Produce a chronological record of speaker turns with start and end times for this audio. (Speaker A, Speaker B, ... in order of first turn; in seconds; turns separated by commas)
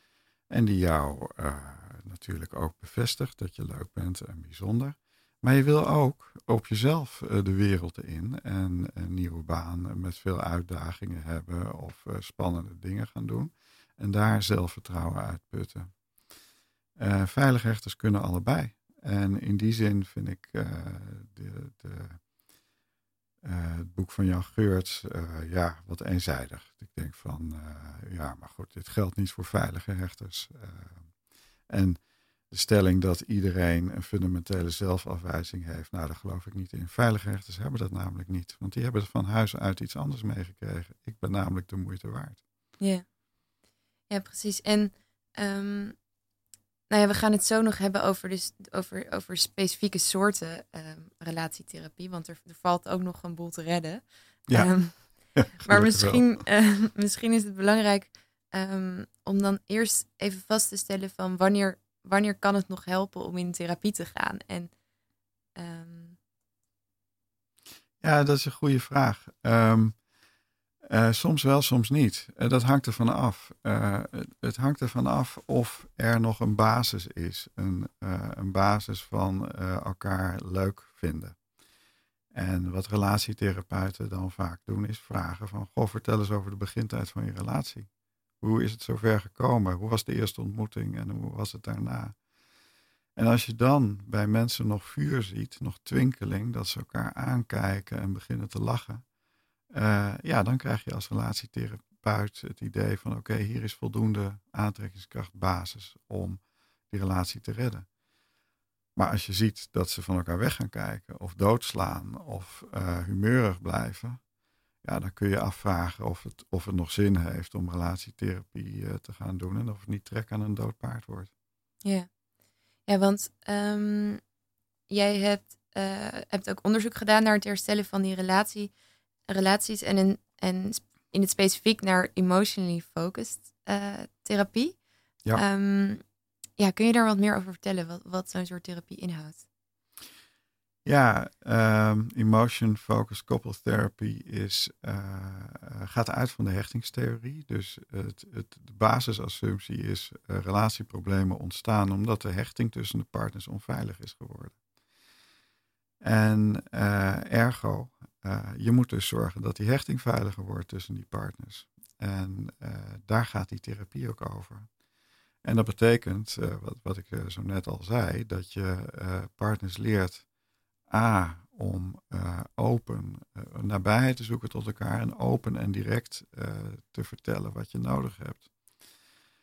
Speaker A: 0.5-15.9, Speaker A: 17.0-22.2, Speaker A: 23.4-31.0, Speaker A: 31.7-32.0, Speaker A: 32.5-42.4, Speaker B: 42.8-43.0, Speaker B: 44.1-46.0, Speaker B: 46.9-64.7, Speaker A: 54.5-56.2, Speaker B: 65.5-66.2, Speaker A: 68.0-70.0, Speaker A: 70.9-81.3, Speaker A: 82.3-87.9, Speaker A: 88.4-92.2, Speaker A: 93.2-99.0, Speaker A: 99.7-106.4, Speaker A: 106.9-107.8, Speaker A: 109.0-114.2, Speaker A: 114.8-121.3, Speaker B: 122.9-124.2, Speaker B: 124.9-128.7, Speaker B: 129.3-134.8, Speaker B: 135.3-136.0, Speaker B: 136.6-139.4, Speaker A: 140.8-154.6, Speaker A: 156.0-164.7, Speaker A: 165.4-170.2, Speaker A: 170.9-178.5